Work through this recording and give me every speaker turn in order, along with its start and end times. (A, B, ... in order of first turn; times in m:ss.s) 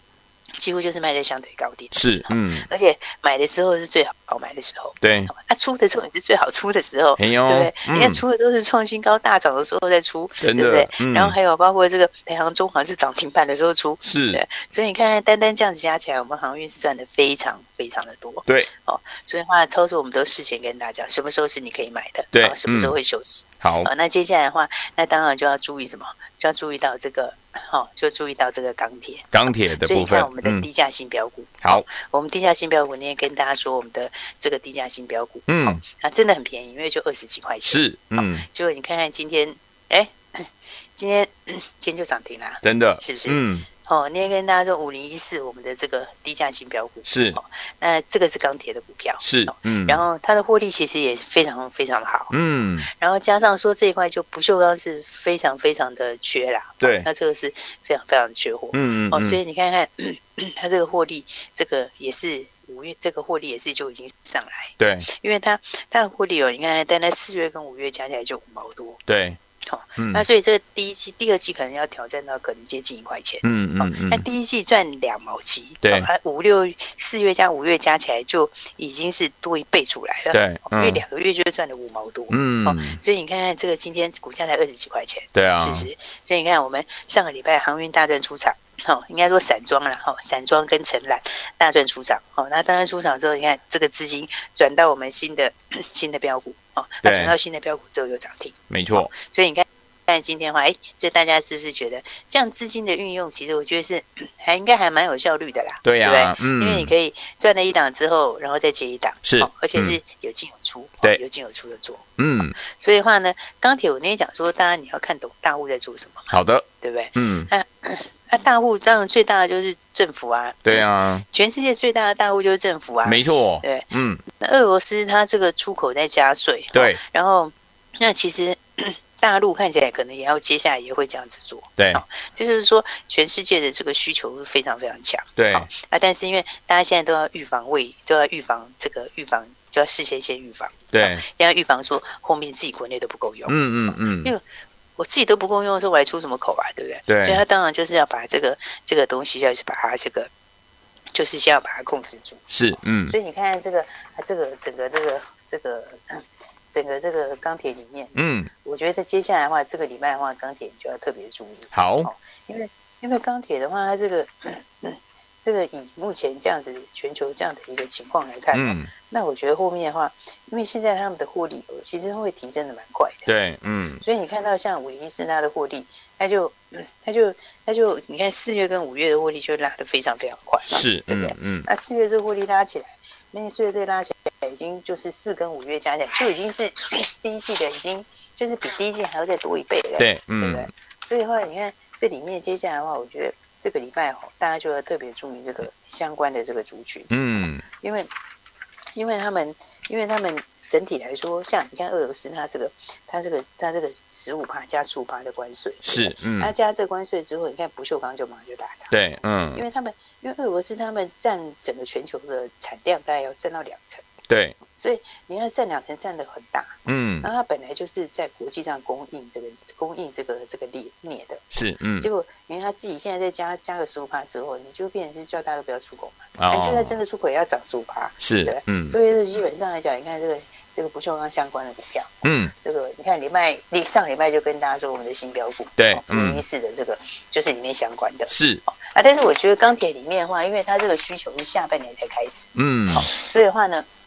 0:00.6-0:52.3 A
0:01.9-0:02.6 B
0:05.0-0:05.3 B
0:07.2-0:08.2 B
0:10.4-0:11.3 B
0:14.0-0:14.4 B
0:22.3-0:22.9 B
0:23.6-0:23.9 B
0:29.3-0:30.6 B
0:35.5-0:35.8 B
0:37.6-0:38.4 B
0:42.6-0:43.7 B
0:47.0-0:47.4 B
0:49.2-0:50.0 B
0:52.3-0:52.9 B
0:52.9-1:09.0 A
0:56.8-0:57.1 B
0:58.7-0:59.4 B
1:04.8-1:05.1 B
1:09.1-1:09.4 B
1:09.6-1:52.1 A
1:10.0-1:10.2 B
1:13.4-1:14.2 B
1:15.8-1:16.1 B
1:20.3-1:21.0 B
1:22.3-1:23.0 B
1:25.3-1:25.9 B
1:37.0-1:37.3 B
1:38.7-1:39.1 B
1:45.8-1:46.9 B
1:49.2-1:50.0 B
1:52.2-1:52.6 B
1:52.6-2:24.4 A
1:56.3-1:57.5 B
2:00.6-2:01.2 B
2:03.0-2:04.2 B
2:06.7-2:07.0 B
2:15.4-2:15.7 B
2:20.9-2:21.2 B
2:23.5-2:24.3 B
2:25.0-2:30.3 A
2:27.1-2:27.4 B
2:31.1-2:32.5 A
2:32.5-2:33.1 B
2:33.1-2:53.3 A
2:38.2-2:38.5 B
2:41.7-2:42.1 B
2:48.5-2:48.9 B
2:53.3-2:54.0 B
2:54.0-3:17.1 A
3:00.7-3:01.7 B
3:10.0-3:10.7 B
3:17.1-3:17.6 B
3:17.7-3:18.1 A
3:19.0-3:29.0 A
3:25.8-3:26.5 B
3:28.9-3:29.6 B
3:29.5-3:34.1 A
3:34.3-3:34.6 B
3:34.7-3:41.4 A
3:36.8-3:37.3 B
3:41.5-3:42.1 B
3:42.0-4:03.8 A
3:46.4-3:47.0 B
3:48.2-3:49.0 B
3:52.2-3:52.5 B
3:55.8-3:56.4 B
3:58.3-3:58.6 B
4:02.6-4:03.1 B